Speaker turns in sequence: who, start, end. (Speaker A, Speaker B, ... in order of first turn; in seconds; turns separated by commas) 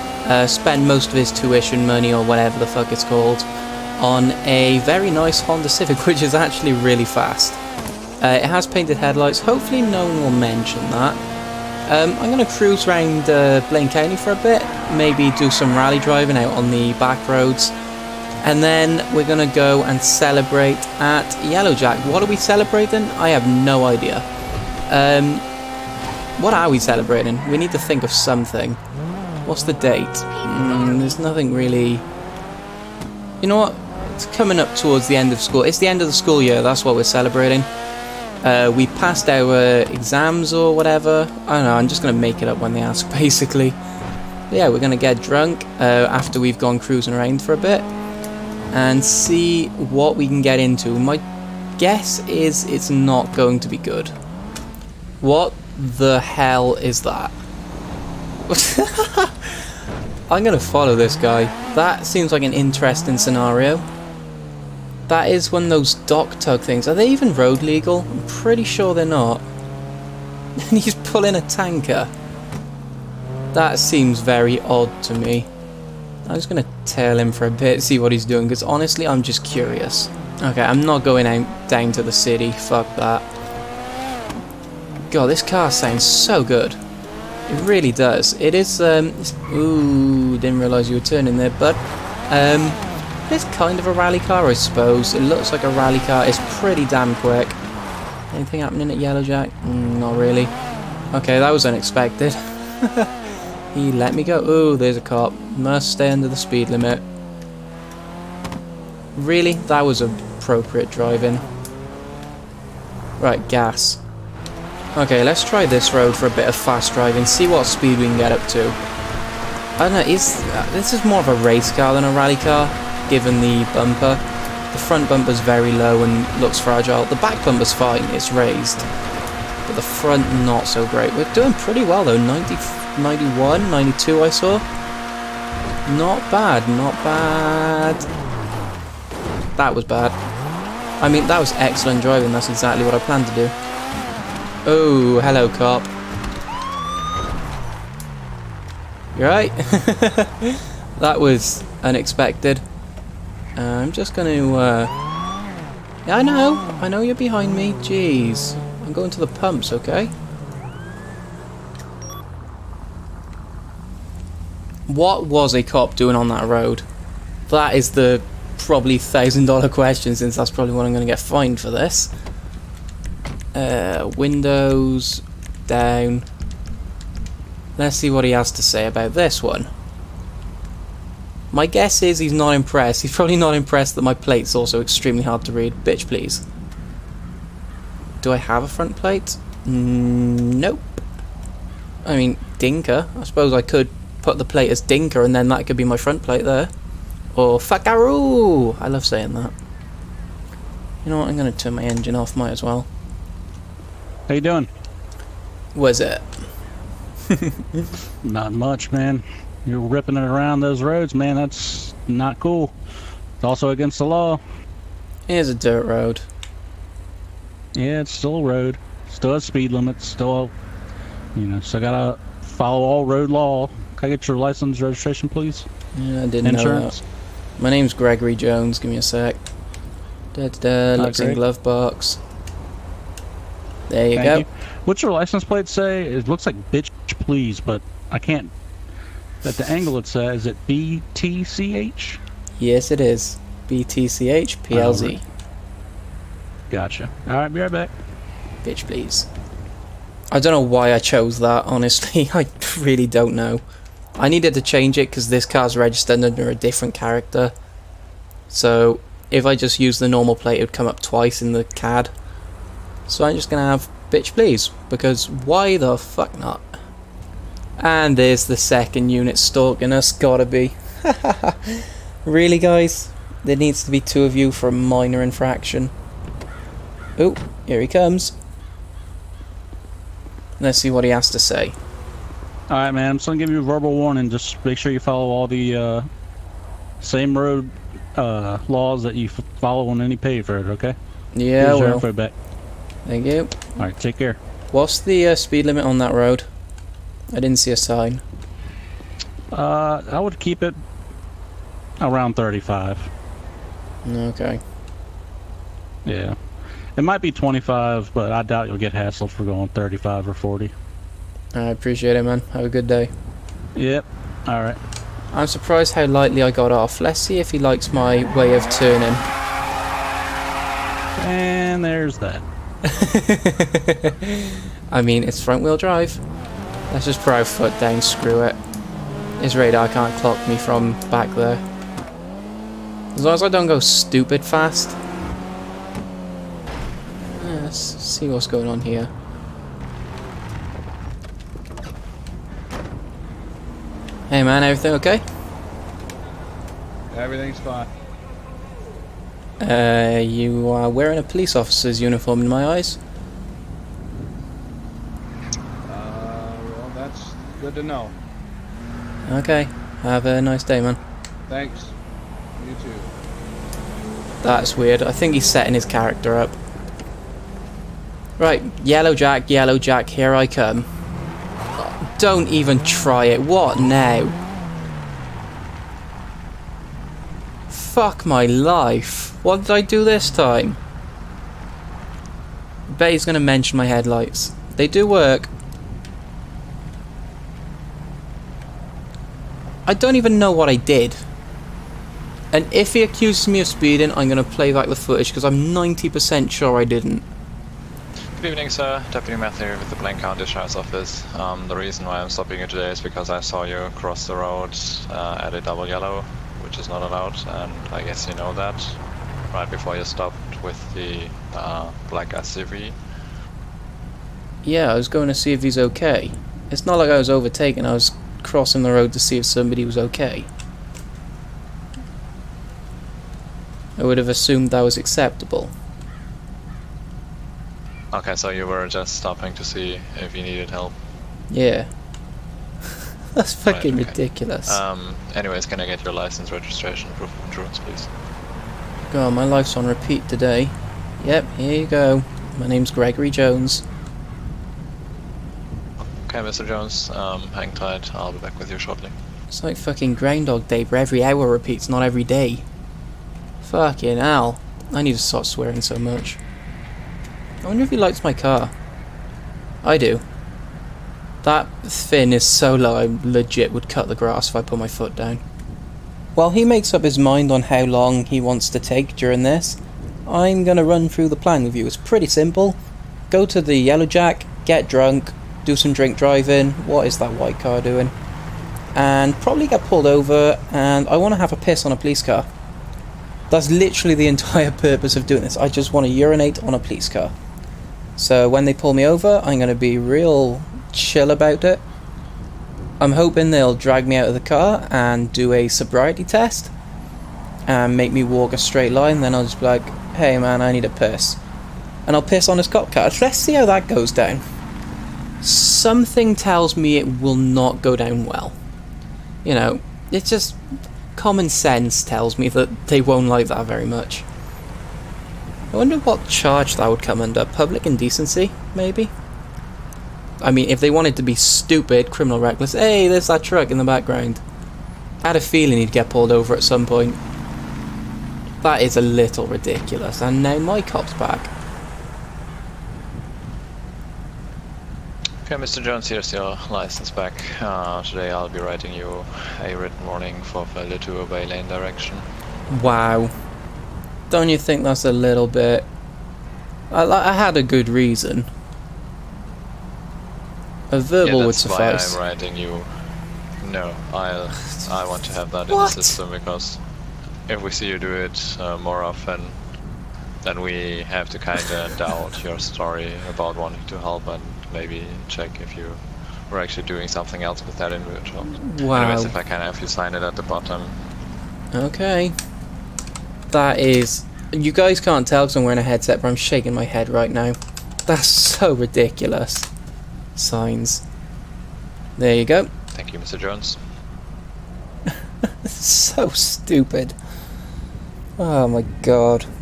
Speaker A: 0.2-3.5, Speaker A: 4.0-7.6, Speaker A: 8.2-11.2, Speaker A: 11.9-17.7, Speaker A: 18.4-24.3, Speaker A: 24.9-25.5, Speaker A: 26.4-28.8, Speaker A: 29.4-32.0, Speaker A: 33.4-37.7, Speaker A: 38.4-43.8, Speaker A: 44.5-47.9, Speaker A: 48.7-51.2, Speaker A: 51.8-54.1, Speaker A: 55.2-57.3, Speaker A: 58.5-59.7, Speaker A: 60.3-63.9, Speaker A: 65.1-69.5, Speaker A: 70.6-72.1, Speaker A: 73.5-75.5, Speaker A: 76.3-83.3, Speaker A: 85.1-86.8, Speaker A: 87.5-97.6, Speaker A: 98.3-100.5, Speaker A: 101.1-103.1, Speaker A: 103.7-107.0, Speaker A: 109.2-111.5, Speaker A: 113.2-114.0, Speaker A: 115.0-118.8, Speaker A: 119.8-128.9, Speaker A: 129.7-134.7, Speaker A: 135.9-138.1, Speaker A: 139.6-140.2, Speaker A: 141.0-143.5, Speaker A: 144.7-145.9, Speaker A: 149.2-152.6, Speaker A: 153.6-154.9, Speaker A: 156.1-160.1, Speaker A: 164.9-166.8, Speaker A: 167.5-172.1, Speaker A: 173.5-176.3, Speaker A: 177.8-179.7, Speaker A: 181.5-186.4, Speaker A: 188.2-191.0, Speaker A: 192.0-196.7, Speaker A: 197.3-199.5, Speaker A: 201.1-202.9, Speaker B: 204.3-204.7, Speaker A: 205.8-206.3, Speaker B: 208.2-212.8, Speaker B: 213.4-214.4, Speaker A: 215.3-216.3, Speaker B: 217.7-220.5, Speaker B: 221.3-225.7, Speaker A: 225.9-227.0, Speaker B: 226.4-227.0, Speaker A: 227.6-229.4, Speaker A: 230.3-232.2, Speaker B: 231.0-231.4, Speaker A: 233.9-234.4, Speaker B: 234.2-238.5, Speaker B: 239.4-242.2, Speaker A: 242.6-245.2, Speaker B: 244.7-245.1, Speaker B: 246.7-247.9, Speaker A: 248.6-249.3, Speaker A: 250.3-253.6, Speaker A: 254.2-257.5, Speaker A: 258.5-262.1, Speaker A: 263.1-266.8, Speaker A: 267.8-275.9, Speaker A: 277.2-278.4, Speaker A: 280.6-281.8, Speaker B: 282.7-286.1, Speaker B: 287.0-291.0, Speaker A: 291.3-292.1, Speaker B: 291.6-292.3, Speaker A: 293.1-293.6, Speaker B: 293.8-294.4, Speaker A: 294.7-296.5, Speaker A: 297.3-298.2, Speaker B: 299.5-300.8, Speaker B: 302.0-303.1, Speaker A: 304.0-304.6, Speaker B: 306.1-306.4, Speaker B: 307.0-310.7, Speaker A: 311.5-313.1, Speaker B: 313.8-314.8, Speaker A: 315.3-319.3, Speaker B: 321.2-322.4, Speaker A: 322.8-326.2, Speaker A: 326.9-328.6, Speaker A: 329.4-331.6, Speaker A: 333.1-335.0, Speaker A: 337.3-339.1, Speaker A: 344.3-345.2, Speaker C: 347.1-347.9, Speaker A: 349.6-353.0, Speaker C: 355.9-358.1, Speaker A: 359.3-361.0, Speaker C: 361.5-362.0, Speaker C: 362.6-363.1, Speaker A: 364.4-366.6, Speaker A: 368.4-370.9, Speaker A: 371.8-374.4, Speaker A: 377.7-380.8, Speaker A: 382.9-385.5, Speaker A: 389.9-391.2, Speaker A: 392.5-397.2, Speaker D: 398.4-409.0, Speaker D: 409.5-413.0, Speaker A: 414.6-420.5, Speaker A: 424.0-425.7, Speaker D: 428.1-430.9, Speaker A: 431.5-431.9, Speaker A: 433.4-434.8, Speaker D: 433.7-438.1, Speaker A: 439.1-443.8, Speaker D: 446.0-449.1, Speaker A: 449.5-452.6, Speaker A: 453.6-456.4, Speaker A: 457.6-458.7, Speaker A: 459.8-460.2, Speaker A: 461.4-465.4, Speaker A: 466.4-472.8, Speaker A: 473.3-478.1, Speaker A: 478.9-482.5, Speaker A: 483.5-487.3, Speaker A: 488.2-491.8, Speaker A: 493.0-496.7, Speaker A: 497.7-501.4, Speaker A: 502.1-504.4, Speaker A: 505.4-508.6, Speaker A: 509.4-510.6, Speaker A: 511.1-514.3, Speaker A: 515.7-519.1, Speaker A: 520.4-524.4, Speaker A: 525.2-527.2, Speaker A: 528.6-531.5, Speaker D: 535.5-542.3, Speaker A: 542.7-543.3, Speaker A: 544.3-545.9, Speaker A: 546.9-548.5, Speaker A: 550.9-552.2, Speaker D: 551.2-552.9, Speaker D: 553.6-556.8, Speaker A: 555.7-556.2, Speaker D: 557.5-559.6, Speaker D: 560.4-571.0, Speaker A: 568.6-569.3, Speaker A: 571.7-572.4, Speaker A: 573.5-579.7, Speaker A: 580.4-581.0, Speaker A: 582.2-582.7, Speaker D: 582.9-583.8, Speaker A: 585.4-587.2, Speaker A: 588.4-589.5